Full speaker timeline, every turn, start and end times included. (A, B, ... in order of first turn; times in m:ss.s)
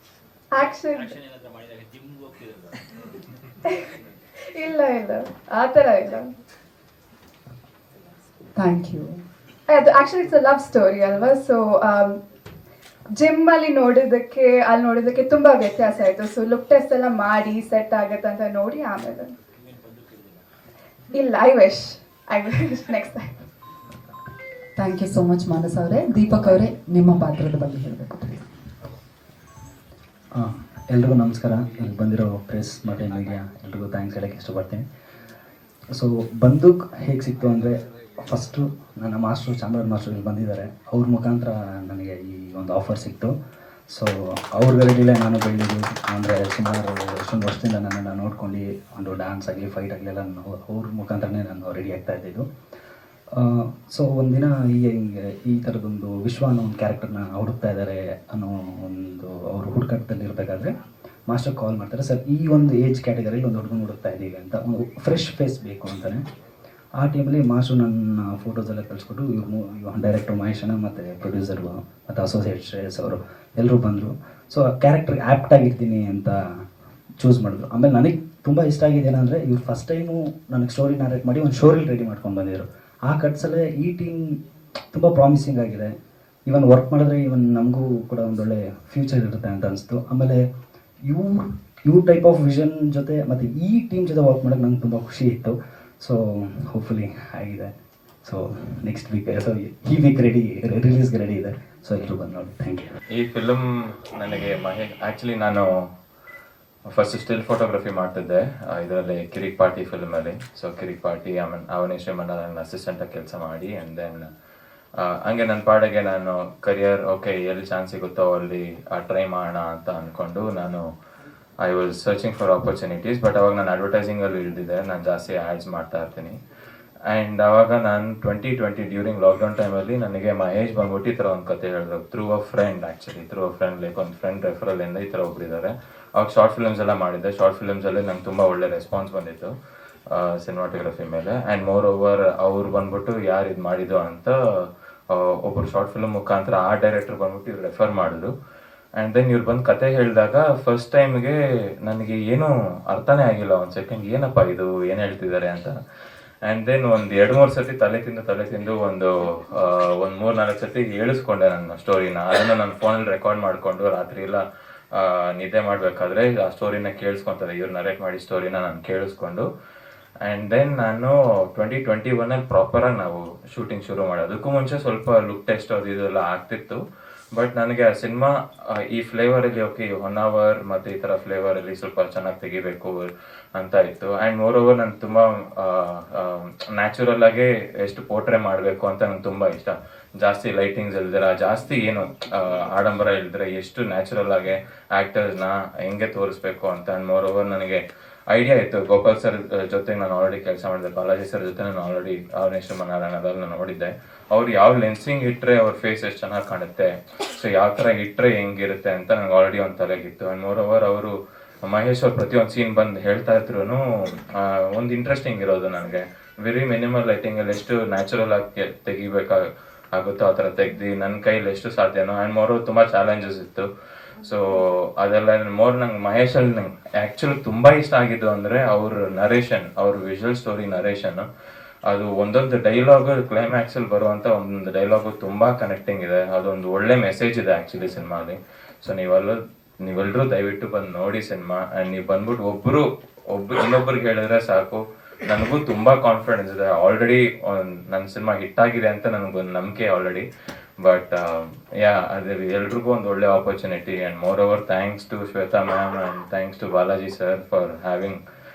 0:00.5-0:01.2 A
0:00.9-0:02.9 B
0:04.5-0:06.3 A
0:08.6-0:09.2 B
0:09.7-0:12.2 A
0:13.2-0:19.3 A
0:19.6-0:20.4 B
0:21.1-0:23.4 A
0:24.8-0:28.4 B
0:30.4-0:34.8 C
0:36.0-0:43.3 C
0:43.9-0:52.5 C
0:53.4-1:00.7 C
1:01.3-1:06.2 C
1:07.0-1:16.4 C
1:17.2-1:24.4 C
1:24.9-1:25.9 C
1:26.5-1:30.4 C
1:31.1-1:37.7 C
1:38.2-1:42.9 C
1:43.1-1:45.7 D
1:46.9-1:54.3 D
1:55.0-2:00.8 D
2:01.6-2:06.4 D
2:07.1-2:19.5 D
2:20.2-2:24.3 D
2:25.1-2:28.3 D
2:29.0-2:35.7 D
2:36.5-2:44.4 D
2:44.9-2:49.5 D
2:50.2-2:56.8 D
2:57.4-3:31.2 D
3:31.7-3:43.7 D
3:44.2-3:51.3 D
3:51.9-4:10.3 D
4:10.8-4:18.2 D